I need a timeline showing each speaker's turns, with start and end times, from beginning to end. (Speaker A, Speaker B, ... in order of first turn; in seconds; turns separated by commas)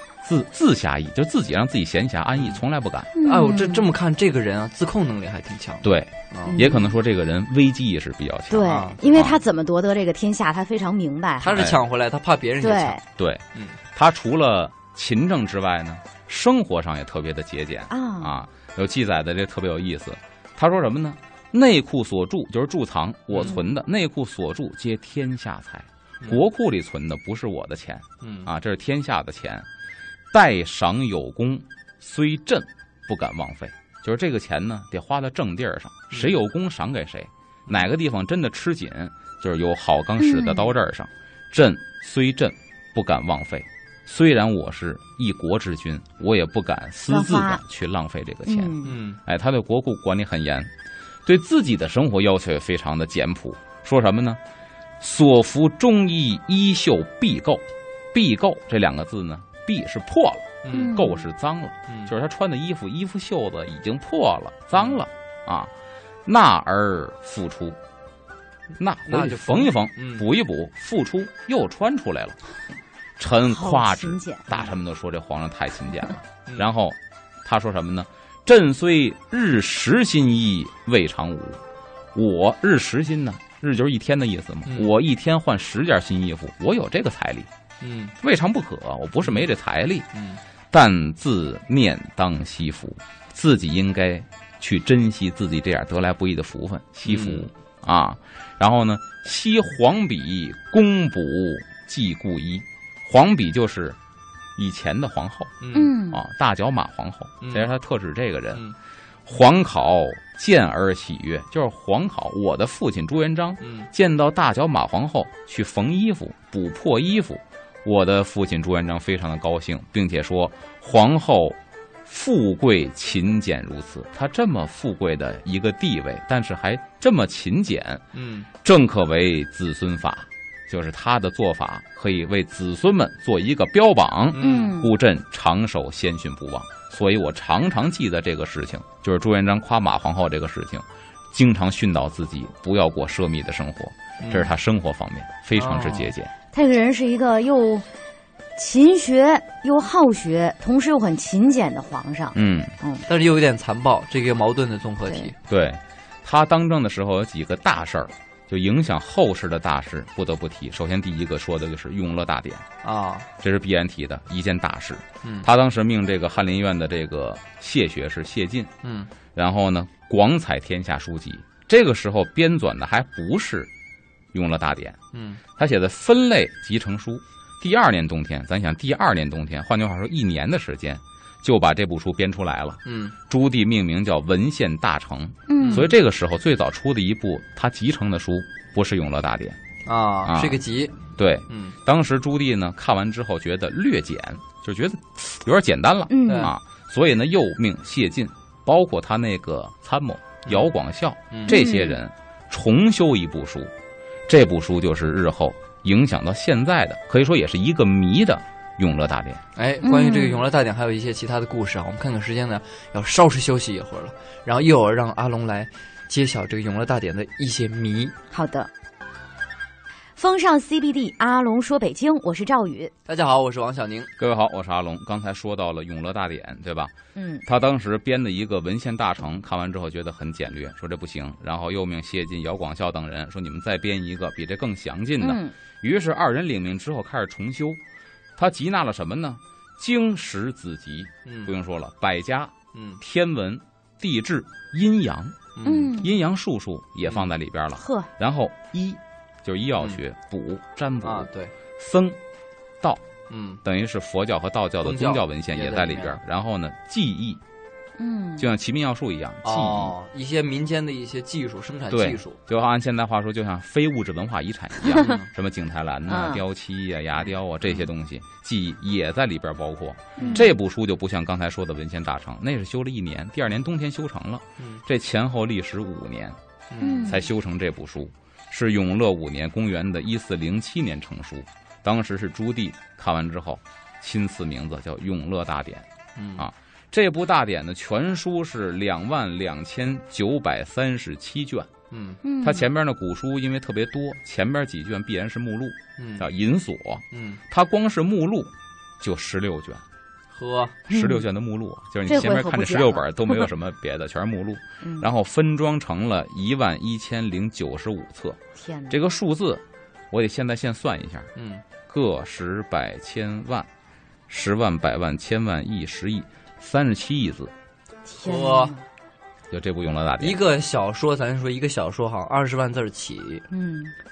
Speaker A: 0.2-3.1, Speaker B: 2.4-2.6, Speaker C: 3.1-3.9, Speaker B: 3.2-6.7, Speaker A: 5.8-9.4, Speaker C: 6.5-6.9, Speaker C: 8.5-11.7, Speaker B: 8.7-9.0, Speaker B: 11.4-13.0, Speaker C: 12.6-13.0, Speaker A: 13.2-29.7, Speaker C: 17.9-18.4, Speaker B: 23.3-23.6, Speaker B: 28.2-28.5, Speaker A: 30.3-50.7, Speaker B: 36.1-36.4, Speaker C: 40.2-40.7, Speaker C: 47.1-47.6, Speaker C: 48.5-49.0, Speaker B: 48.8-49.2, Speaker A: 51.2-54.4, Speaker A: 55.0-65.7, Speaker B: 60.6-61.0, Speaker C: 60.7-61.3, Speaker A: 66.2-67.8, Speaker A: 68.8-72.4, Speaker B: 69.1-70.3, Speaker A: 73.2-81.6, Speaker C: 73.5-74.5, Speaker A: 82.1-87.5, Speaker B: 84.7-84.9, Speaker B: 87.8-88.1, Speaker A: 88.2-90.1, Speaker B: 90.1-90.4, Speaker A: 90.7-104.0, Speaker B: 97.1-97.5, Speaker A: 104.6-105.5, Speaker B: 105.6-105.9, Speaker C: 105.7-106.2, Speaker A: 106.1-108.6, Speaker B: 107.4-107.7, Speaker A: 109.3-128.0, Speaker B: 113.6-113.9, Speaker B: 128.1-128.5, Speaker A: 128.6-146.3, Speaker B: 134.3-134.8, Speaker C: 134.4-134.9, Speaker B: 144.2-144.5, Speaker B: 145.6-146.1, Speaker C: 146.5-147.9, Speaker C: 148.6-153.0, Speaker A: 152.3-152.8, Speaker B: 153.1-155.4, Speaker C: 155.1-155.3, Speaker A: 155.5-162.7, Speaker B: 162.8-163.3, Speaker A: 163.4-168.7, Speaker B: 165.2-165.5, Speaker B: 168.8-169.1, Speaker A: 169.3-173.7, Speaker A: 174.3-175.0, Speaker B: 175.1-175.4, Speaker A: 175.6-189.6, Speaker B: 182.9-183.2, Speaker C: 185.5-185.9, Speaker B: 185.6-185.9, Speaker B: 189.9-191.8, Speaker A: 190.2-190.6, Speaker A: 191.2-203.7, Speaker C: 196.1-196.5, Speaker B: 196.3-196.5, Speaker B: 201.3-201.6, Speaker C: 201.5-202.0, Speaker A: 204.3-209.4, Speaker B: 209.6-218.2, Speaker C: 209.8-210.4, Speaker C: 218.3-218.7, Speaker C: 220.2-222.9, Speaker B: 223.1-224.1, Speaker A: 224.2-226.9, Speaker C: 227.2-227.4, Speaker A: 227.4-237.8, Speaker C: 235.2-235.6, Speaker A: 238.4-252.2, Speaker B: 241.3-241.5, Speaker B: 242.7-243.0, Speaker B: 245.6-246.0, Speaker C: 245.6-246.1, Speaker C: 247.8-248.1, Speaker B: 251.0-251.5, Speaker B: 253.3-253.6, Speaker A: 253.6-257.4, Speaker B: 254.8-256.2, Speaker C: 258.0-258.5, Speaker A: 258.4-259.9, Speaker B: 259.4-262.4, Speaker A: 261.9-276.4, Speaker B: 264.9-265.3, Speaker C: 266.1-266.4, Speaker B: 267.2-267.9, Speaker B: 270.2-270.5, Speaker C: 270.2-270.5, Speaker B: 276.7-277.2, Speaker C: 276.8-277.2, Speaker A: 277.0-291.7, Speaker B: 286.2-286.5, Speaker B: 291.9-292.2, Speaker C: 292.2-292.7, Speaker A: 292.4-299.8, Speaker B: 296.0-296.3, Speaker B: 297.1-297.4, Speaker B: 300.3-300.9, Speaker C: 300.9-301.2, Speaker A: 300.9-308.4, Speaker C: 302.1-303.5, Speaker C: 304.8-305.1, Speaker C: 308.6-309.0, Speaker A: 308.9-311.3, Speaker B: 311.4-311.6, Speaker A: 311.9-313.7, Speaker A: 314.3-317.5, Speaker C: 318.1-318.9, Speaker B: 318.2-318.7, Speaker A: 319.5-320.4, Speaker B: 320.2-323.5, Speaker C: 323.5-323.9